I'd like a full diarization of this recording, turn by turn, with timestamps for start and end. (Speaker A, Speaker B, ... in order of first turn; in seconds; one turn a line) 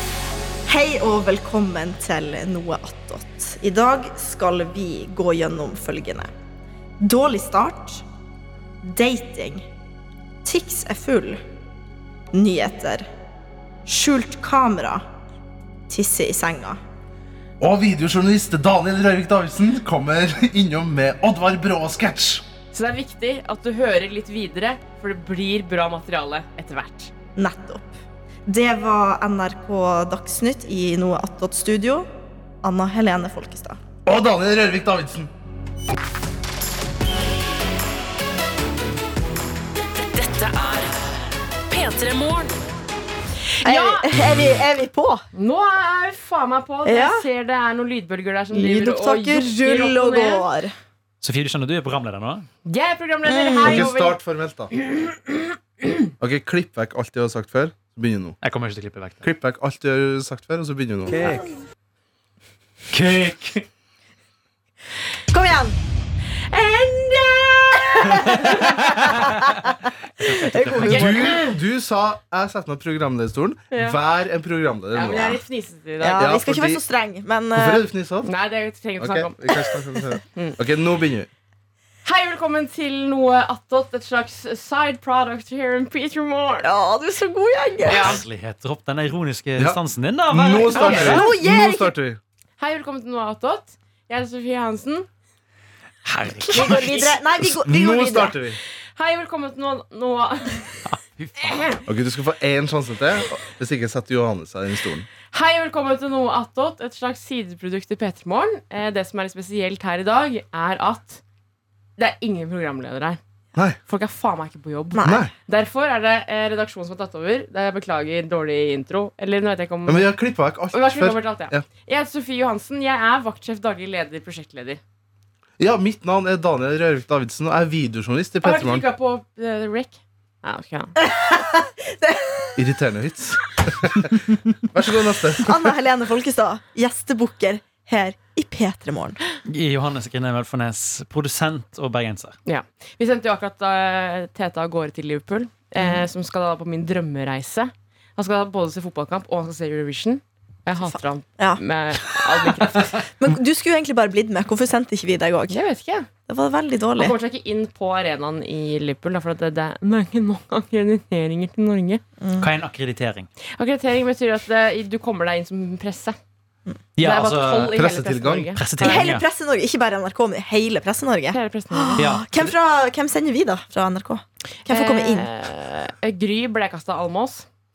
Speaker A: 0.7-6.3
Speaker A: 7.0-8.0
Speaker A: 8.8-9.7
Speaker A: 10.4-11.4
Speaker A: 12.3-13.1
Speaker A: 13.9-15.0
Speaker A: 15.9-16.8
Speaker B: 17.6-22.4
Speaker C: 22.7-27.1
Speaker A: 27.4-27.9
Speaker A: 28.5-32.1
Speaker A: 32.6-33.8
Speaker B: 34.0-35.3
Speaker D: 39.9-41.1
Speaker D: 41.7-42.5
Speaker C: 43.5-44.1
Speaker A: 43.6-45.2
Speaker C: 45.3-50.5
Speaker A: 46.9-47.3
Speaker A: 48.5-50.7
Speaker E: 51.2-52.5
Speaker C: 52.6-54.2
Speaker A: 53.2-53.9
Speaker B: 53.6-54.7
Speaker C: 55.0-55.3
Speaker B: 56.2-58.4
Speaker E: 58.4-59.2
Speaker B: 59.2-61.5
Speaker E: 61.1-61.4
Speaker E: 62.9-63.6
Speaker A: 65.3-65.8
Speaker C: 66.5-68.7
Speaker A: 67.8-69.6
Speaker E: 69.0-69.3
Speaker E: 70.2-71.3
Speaker A: 70.2-71.2
Speaker B: 70.8-75.4
Speaker C: 70.8-71.3
Speaker C: 73.7-74.0
Speaker C: 74.9-76.2
Speaker A: 76.0-77.9
Speaker B: 76.2-76.8
Speaker B: 77.5-78.3
Speaker C: 78.2-79.4
Speaker B: 79.0-81.3
Speaker C: 82.0-86.7
Speaker A: 86.6-88.2
Speaker C: 87.9-88.2
Speaker E: 87.9-91.3
Speaker B: 90.3-92.2
Speaker C: 90.7-91.3
Speaker A: 90.8-91.9
Speaker C: 92.6-95.1
Speaker E: 96.0-97.2
Speaker A: 96.5-98.4
Speaker B: 97.6-98.6
Speaker C: 99.0-100.8
Speaker E: 100.9-101.7
Speaker C: 101.4-101.8
Speaker B: 101.9-105.1
Speaker C: 105.3-111.2
Speaker C: 112.0-113.2
Speaker C: 113.9-120.1
Speaker A: 114.9-115.3
Speaker B: 115.0-115.3
Speaker B: 119.9-121.7
Speaker C: 120.7-124.8
Speaker B: 125.6-128.9
Speaker C: 128.4-131.0
Speaker A: 131.0-132.6
Speaker B: 132.6-135.6
Speaker A: 135.4-139.2
Speaker E: 139.5-142.4
Speaker C: 142.5-153.0
Speaker A: 145.8-146.0
Speaker A: 150.8-151.6
Speaker A: 152.2-152.5
Speaker A: 153.2-155.6
Speaker C: 155.5-156.1
Speaker A: 156.3-157.2
Speaker C: 157.0-162.0
Speaker A: 162.2-162.5
Speaker E: 162.4-163.3
Speaker C: 163.6-166.2
Speaker E: 167.0-167.8
Speaker C: 167.0-169.1
Speaker B: 167.7-168.5
Speaker E: 168.6-169.2
Speaker A: 168.8-175.3
Speaker C: 171.3-172.0
Speaker E: 172.0-172.5
Speaker C: 174.7-177.5